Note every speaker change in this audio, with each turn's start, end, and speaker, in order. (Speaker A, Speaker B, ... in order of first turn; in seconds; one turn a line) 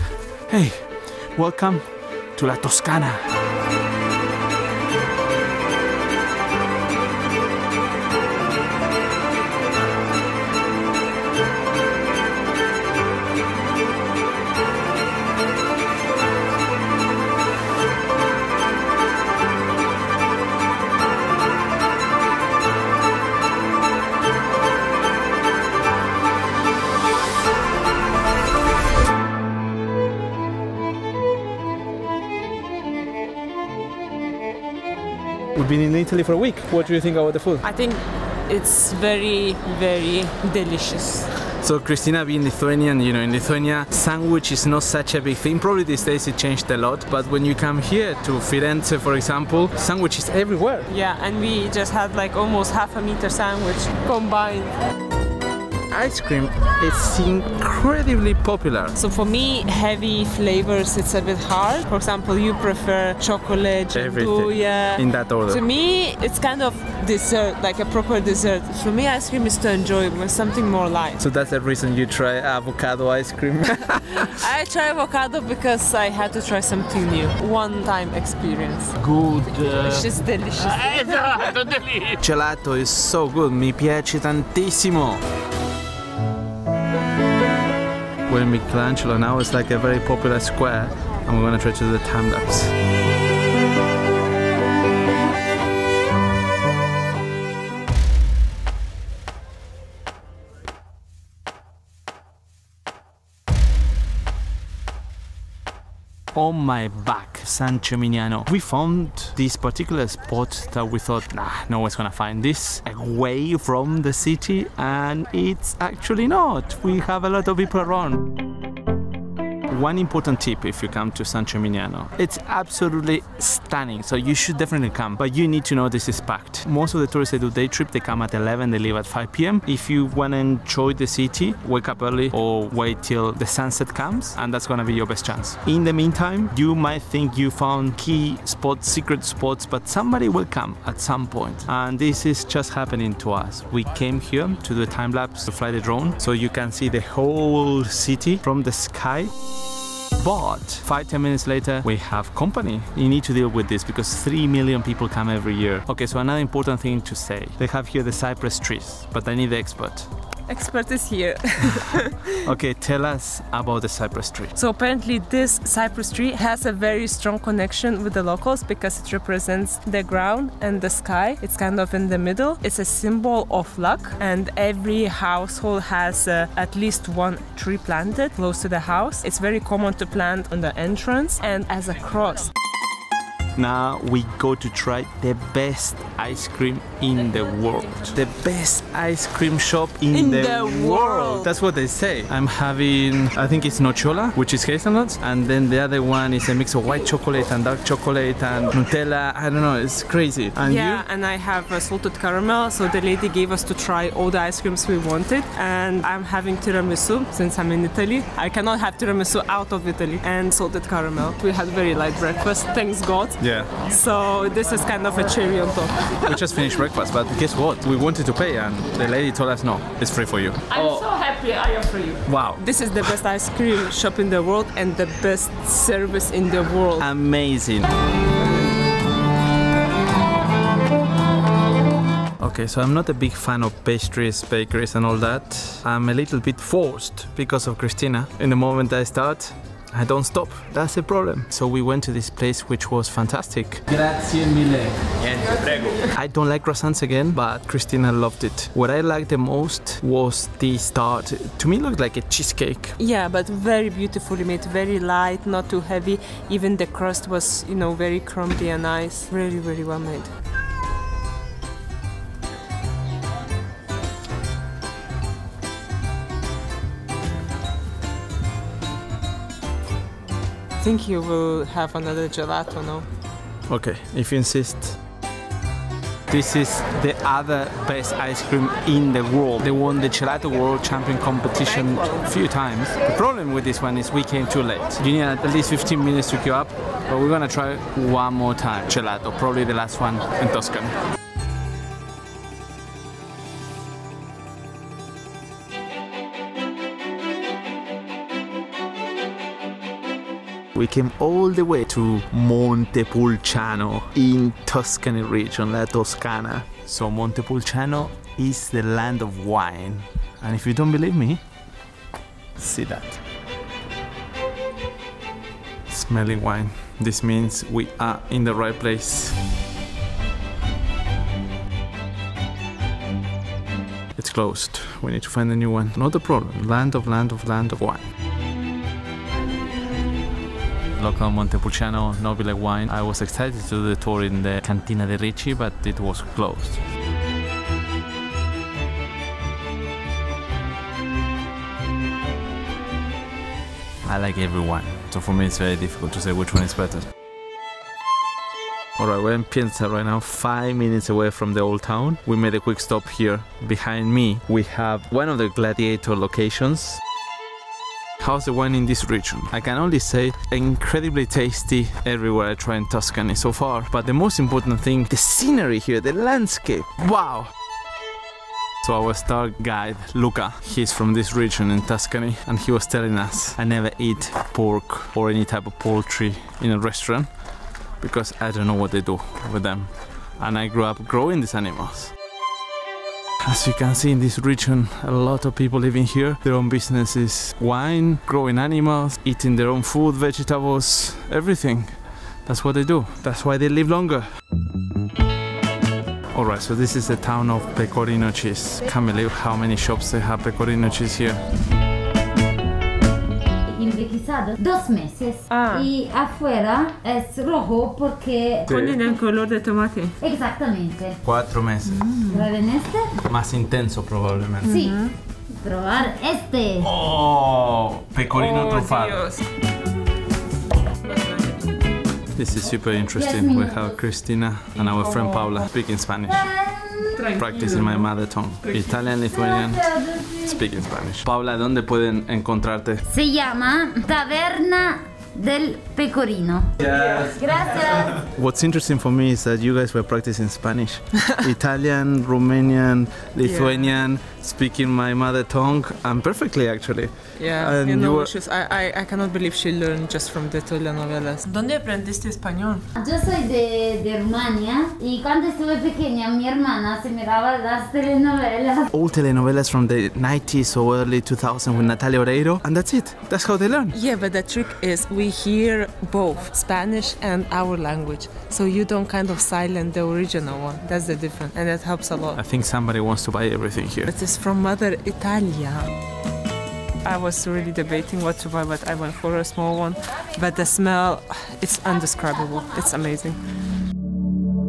Speaker A: 0.5-3.3
Speaker A: 35.5-37.7
Speaker B: 37.6-41.3
Speaker A: 41.5-50.9
Speaker B: 50.9-54.8
Speaker A: 55.9-59.0
Speaker B: 59.0-71.2
Speaker A: 63.9-65.7
Speaker A: 71.2-74.4
Speaker B: 74.2-79.0
Speaker A: 79.0-80.0
Speaker B: 79.7-82.0
Speaker A: 82.0-85.2
Speaker A: 88.3-92.7
Speaker A: 106.3-118.3
Speaker A: 119.7-149.3
Speaker A: 150.2-160.1
Speaker B: 160.5-162.2
Speaker A: 162.4-164.5
Speaker B: 164.6-182.5
Speaker A: 183.6-201.1
Speaker B: 190.1-191.5
Speaker B: 200.6-216.5
Speaker A: 213.4-213.8
Speaker A: 216.2-221.1
Speaker B: 220.7-227.1
Speaker A: 222.2-223.1
Speaker A: 227.0-227.9
Speaker A: 232.4-253.0
Speaker B: 253.0-260.3
Speaker B: 270.8-273.1
Speaker A: 273.7-275.0
Speaker A: 276.3-291.0
Speaker A: 300.8-311.4
Speaker A: 312.6-313.2
Speaker A: 315.9-319.4
Speaker A: 324.2-328.1
Speaker A: 331.0-336.8
Speaker A: 344.1-347.1
Speaker A: 349.0-357.0
Speaker A: 358.2-367.5
Speaker A: 368.8-377.4
Speaker A: 378.0-382.1
Speaker A: 383.4-394.4
Speaker A: 396.3-401.4
Speaker C: 403.7-408.7
Speaker B: 405.5-405.9
Speaker A: 408.7-409.0
Speaker B: 408.7-410.2
Speaker C: 410.2-411.2
Speaker A: 411.2-412.1
Speaker B: 411.9-412.5
Speaker C: 412.2-413.2
Speaker A: 413.1-414.8
Speaker B: 414.6-415.1
Speaker C: 414.7-416.9
Speaker A: 416.8-419.2
Speaker B: 418.3-419.4
Speaker A: 422.4-426.6
Speaker C: 423.1-424.0
Speaker B: 424.9-425.5
Speaker C: 426.3-427.2
Speaker B: 427.1-428.1
Speaker A: 427.3-433.1
Speaker C: 429.2-430.6
Speaker C: 433.1-438.2
Speaker A: 436.8-437.4
Speaker A: 438.1-448.3
Speaker B: 443.4-443.9
Speaker B: 447.4-452.9
Speaker C: 453.0-458.9
Speaker A: 458.9-464.0
Speaker B: 463.9-472.4
Speaker A: 472.3-474.1
Speaker B: 474.1-475.9
Speaker B: 477.0-483.4